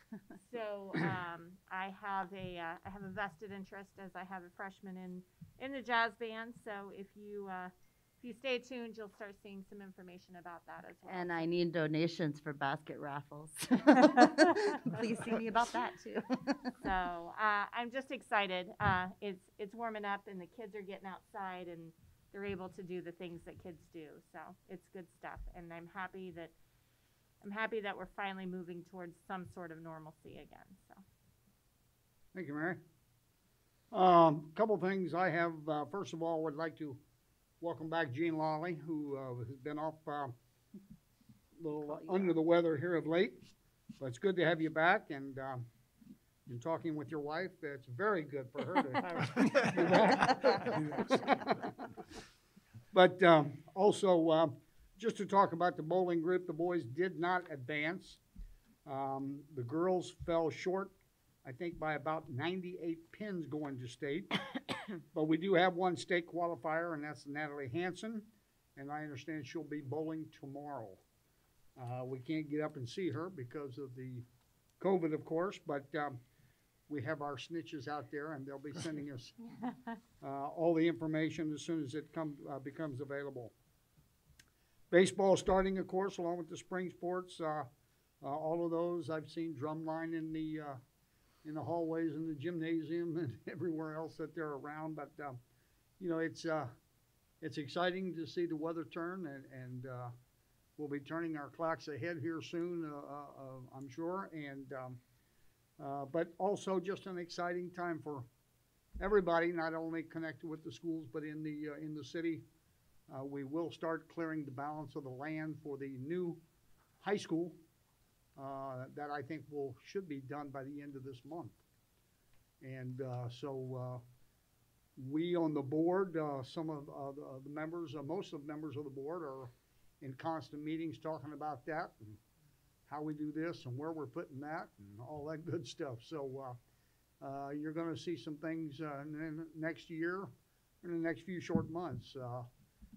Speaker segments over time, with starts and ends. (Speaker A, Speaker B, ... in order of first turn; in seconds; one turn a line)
Speaker A: 0.4-11.5
Speaker B: 11.1-16.7
Speaker A: 16.8-26.5
Speaker A: 27.4-31.0
Speaker C: 32.3-32.8
Speaker C: 33.9-37.0
Speaker C: 37.6-40.4
Speaker C: 41.6-43.5
Speaker B: 41.9-42.4
Speaker C: 44.0-45.7
Speaker C: 46.5-51.8
Speaker C: 52.9-58.2
Speaker C: 58.9-64.3
Speaker C: 65.1-71.0
Speaker C: 71.8-74.3
Speaker C: 74.8-76.2
Speaker C: 76.9-79.3
Speaker C: 80.2-83.5
Speaker C: 84.9-87.7
Speaker C: 88.2-90.8
Speaker C: 91.4-95.4
Speaker C: 96.0-96.7
Speaker C: 97.4-100.2
Speaker C: 100.8-105.0
Speaker C: 105.8-108.3
Speaker C: 109.0-112.5
Speaker C: 113.1-116.4
Speaker C: 117.0-117.6
Speaker C: 118.4-121.6
Speaker C: 122.6-124.0
Speaker C: 125.0-132.2
Speaker C: 132.9-136.6
Speaker C: 137.2-140.3
Speaker C: 140.8-142.5